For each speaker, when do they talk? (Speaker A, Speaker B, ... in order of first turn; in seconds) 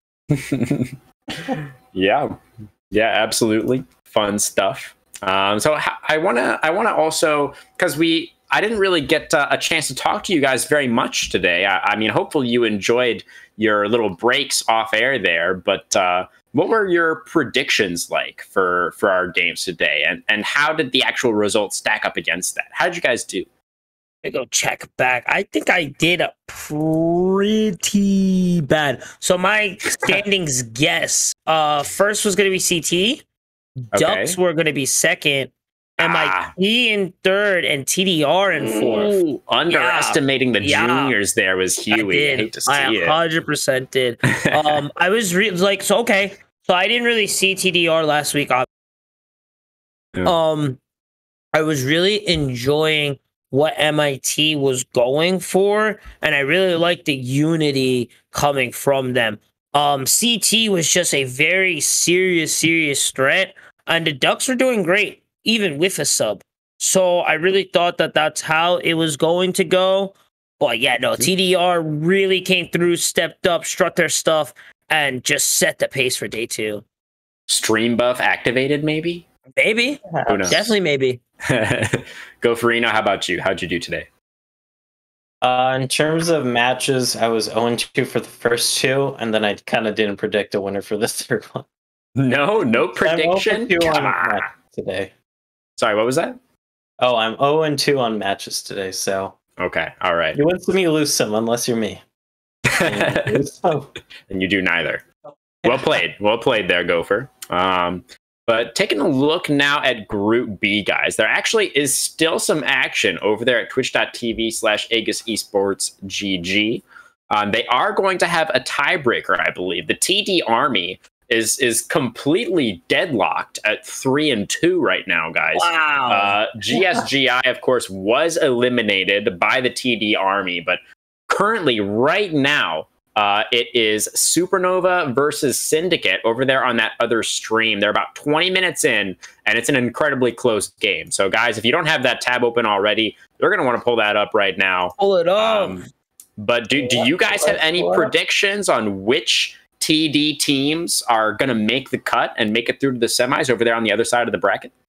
Speaker A: 0.3-2.4, 2.9-23.5, 29.9-30.2, 33.9-34.4, 36.0-36.5, 38.6-43.2, 44.3-44.8, 77.5-79.2, 80.2-80.6, 81.5-84.1, 92.2-94.4, 95.8-96.4, 99.6-100.4, 102.7-103.4, 104.3-105.0, 105.6-145.8, 146.4-154.7
Speaker B: 24.2-33.2, 33.8-39.2, 39.7-41.1, 41.9-48.7, 50.2-50.8, 51.5-76.8, 79.6-81.2, 125.5-126.3, 145.0-145.8
Speaker C: 80.1-80.6, 85.4-91.7, 93.0-95.1, 97.0-99.3, 100.3-102.0, 102.8-103.9, 105.6-106.0, 146.8-148.1